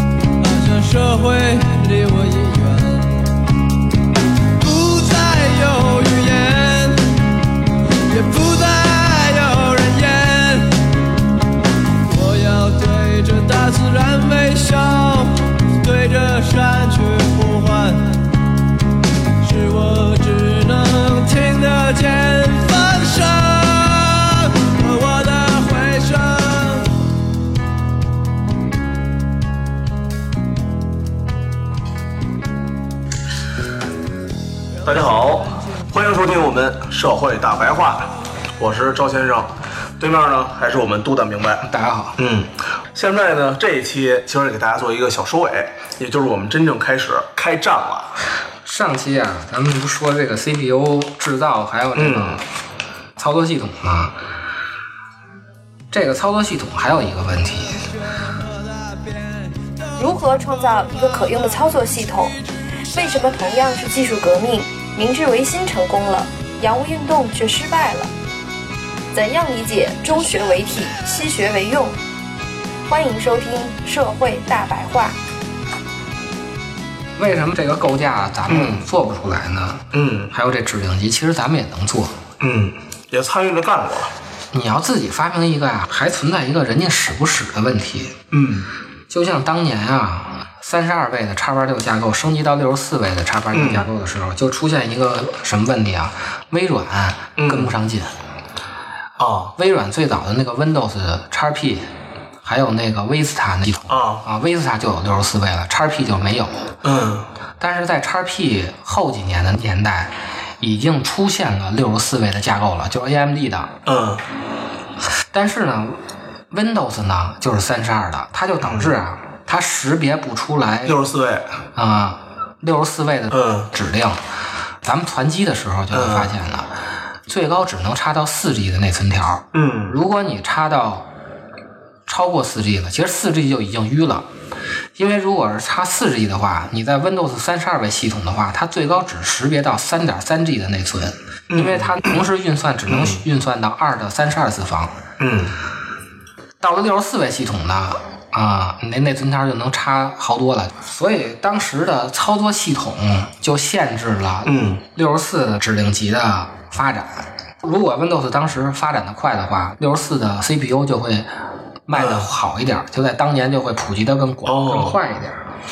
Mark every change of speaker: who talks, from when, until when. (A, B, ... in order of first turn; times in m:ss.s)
0:00.4-0:03.2 A
0:04.6-0:07.1 A
0:07.9-0:10.8 A
0:12.0-0:18.2 A
0:19.4-0:27.0 A
0:34.8-0:41.6 B
0:35.0-0:35.8 A
0:41.6-0:42.2 C
0:42.2-0:48.1 B
0:48.6-0:52.4 C
0:51.9-0:52.4 B
0:53.2-0:54.2 C
0:55.9-0:57.8 C
0:58.1-1:01.4 A
1:00.0-1:02.3 D
1:02.9-1:08.1 D
1:09.1-1:11.9 D
1:12.9-1:15.2 D
1:17.2-1:22.2 C
1:18.5-1:18.9 B
1:19.9-1:20.3 B
1:22.4-1:24.1 B
1:24.5-1:28.2 C
1:28.3-1:28.7 B
1:29.1-1:38.1 C
1:33.5-1:33.9 B
1:37.4-1:37.8 B
1:39.2-1:39.5 B
1:39.6-1:41.9 C
1:42.4-1:46.7 C
1:43.9-1:44.2 B
1:46.8-1:47.3 B
1:47.6-1:53.8 C
1:53.8-1:54.2 B
1:55.3-2:01.0 C
1:58.6-1:58.9 B
2:00.8-2:01.5 B
2:01.8-2:04.2 C
2:03.3-2:03.7 B
2:04.8-2:06.7 C
2:05.9-2:06.3 B
2:07.3-2:11.1 C
2:09.5-2:10.0 B
2:12.1-2:14.2 C
2:15.0-2:25.0 C
2:21.5-2:22.2 B
2:22.9-2:23.2 B
2:25.2-2:25.5 B
2:26.6-2:41.3 C
2:34.4-2:34.8 B
2:41.9-2:45.4 C
2:41.9-2:42.3 B
2:44.4-2:45.0 B